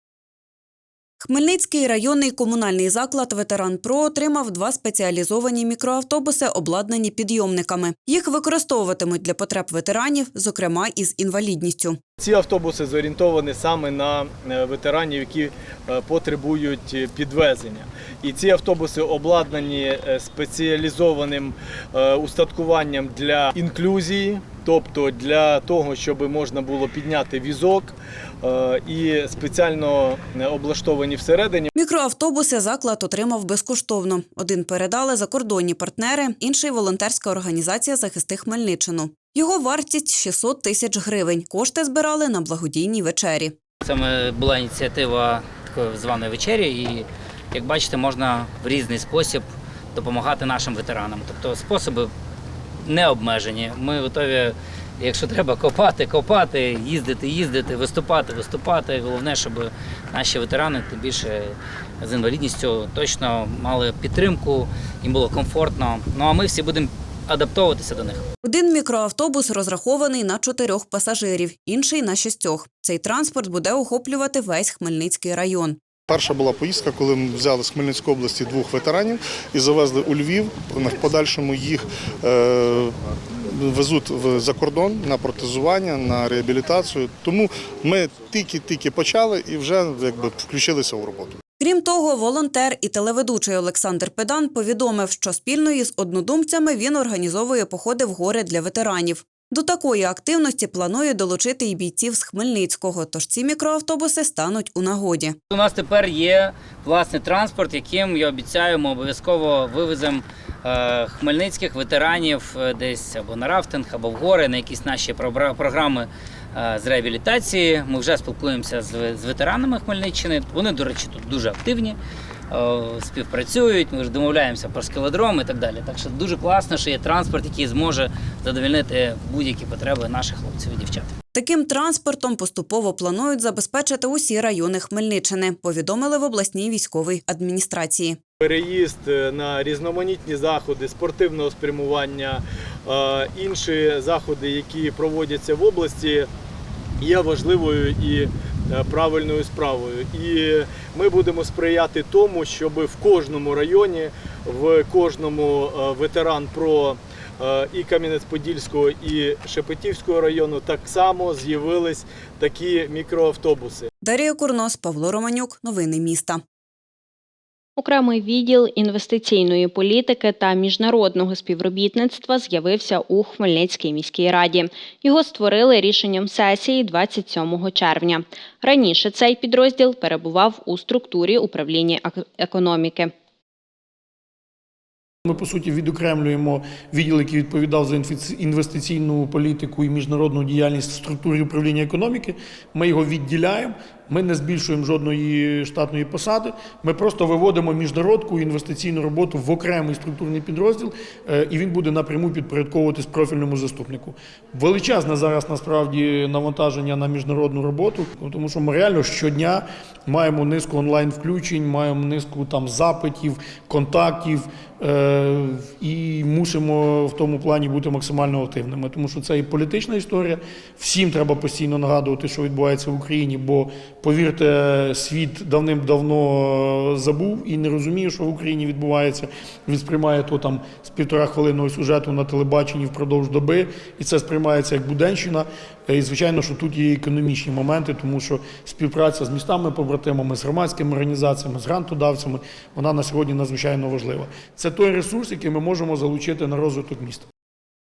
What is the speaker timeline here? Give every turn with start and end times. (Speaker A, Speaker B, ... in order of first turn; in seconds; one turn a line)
Speaker A: 1.2-12.0
Speaker B: 12.2-31.7
Speaker A: 31.8-43.6
Speaker C: 43.8-52.1
Speaker C: 52.8-68.2
Speaker A: 68.4-75.8
Speaker D: 76.1-82.9
Speaker D: 83.5-91.3
Speaker A: 91.6-105.4
Speaker C: 105.5-131.1
Speaker A: 131.3-138.2
Speaker B: 138.4-146.3
Speaker B: 147.0-163.9
Speaker A: 164.0-166.4
Speaker E: 167.8-183.1
Speaker F: 185.2-247.3